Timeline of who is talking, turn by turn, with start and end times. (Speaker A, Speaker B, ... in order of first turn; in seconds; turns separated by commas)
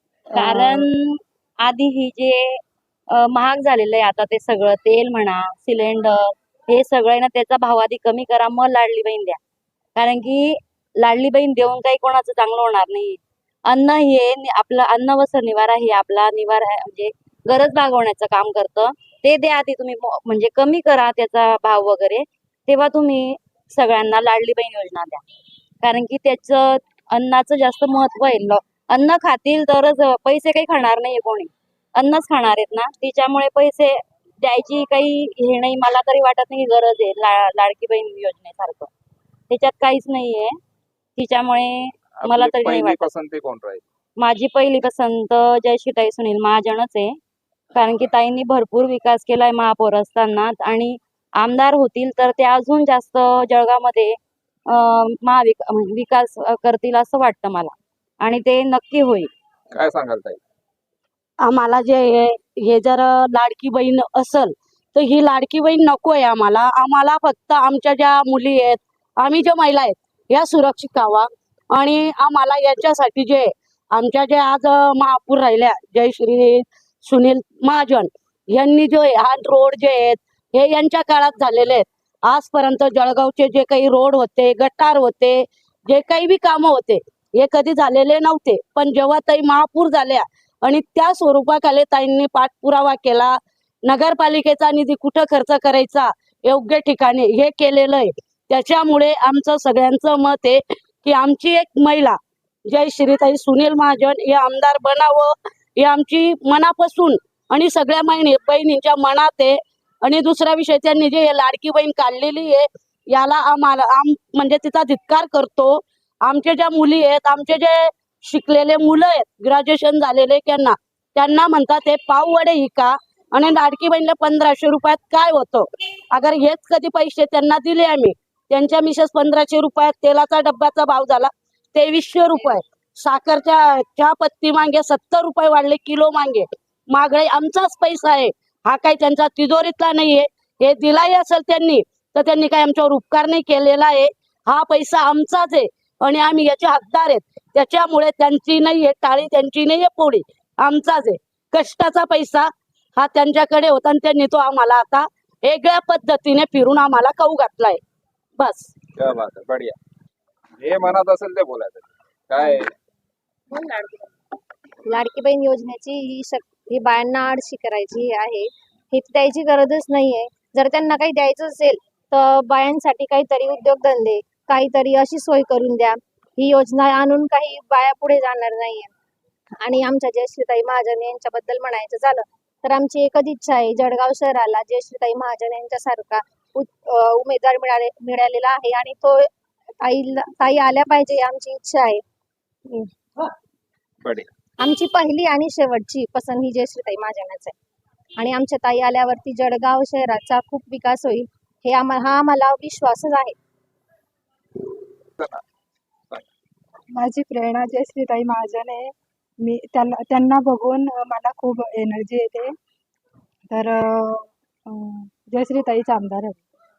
Speaker A: 0.3-2.6, Speaker B: 0.3-0.9, Speaker A: 3.1-9.4, Speaker A: 9.9-25.2, Speaker A: 25.8-38.9, Speaker A: 39.5-40.5, Speaker A: 41.1-43.0, Speaker C: 42.2-43.8, Speaker A: 44.2-47.2, Speaker A: 47.7-54.2, Speaker A: 54.7-59.3, Speaker C: 59.7-60.4, Speaker D: 61.4-157.8, Speaker D: 158.4-158.7, Speaker C: 159.0-159.8, Speaker C: 160.6-162.7, Speaker E: 163.5-163.9, Speaker E: 164.8-178.9, Speaker E: 179.6-189.3, Speaker E: 189.8-192.0, Speaker C: 194.0-194.3, Speaker E: 194.6-197.5, Speaker E: 198.2-203.3, Speaker C: 205.2-205.4, Speaker B: 206.9-212.6, Speaker B: 213.5-216.4